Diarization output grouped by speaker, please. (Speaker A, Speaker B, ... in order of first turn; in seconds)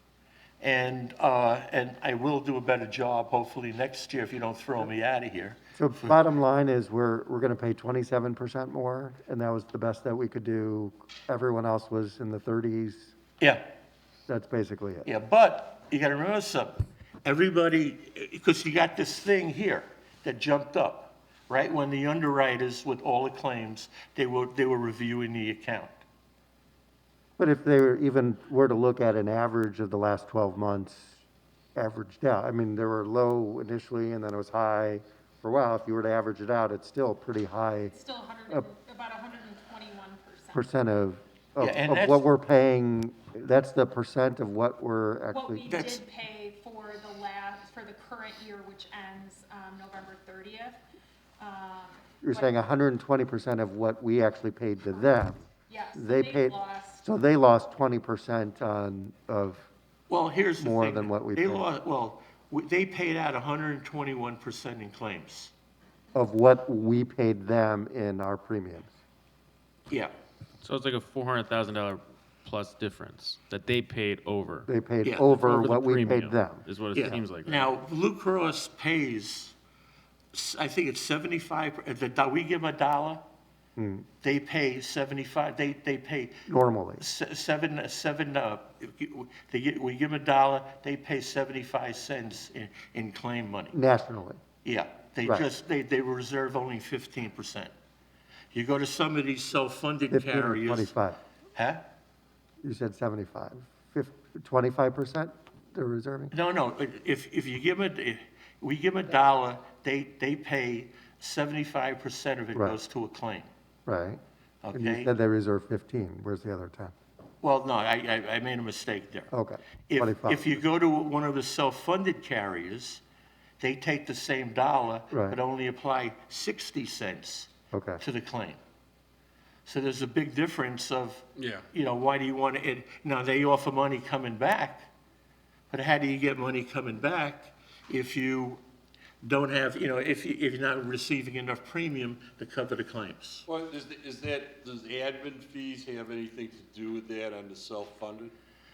Speaker A: 0.6-6.2, 15.0-25.9, 41.6-42.2, 45.7-46.0, 60.1-65.5, 75.0-75.3, 76.9-79.5, 80.3-83.2, 84.2-86.4, 87.0-93.8, 94.6-97.7, 98.5-100.9, 101.5-101.8, 106.3-113.5, 114.6-115.1, 117.4-119.3, 119.9-123.0, 123.6-128.6, 129.7-134.9, 135.7-138.6, 139.2-143.4
Speaker B: 5.8-13.1, 14.3-15.1, 27.4-31.2, 31.8-37.9, 40.5-45.7, 52.2-59.7, 60.6-61.7, 66.1-68.9, 74.7-76.7, 83.8-84.1, 86.5-87.0, 93.7-94.4, 100.1-101.2, 102.6-106.3, 113.9-114.2, 114.7-116.9, 119.3-120.6, 125.1-125.4, 127.7-128.0
Speaker C: 37.9-40.7, 45.3-50.8, 51.4-52.7, 55.7-57.0
Speaker D: 70.6-74.7, 75.3-77.7
Speaker E: 131.4-131.6, 143.5-148.3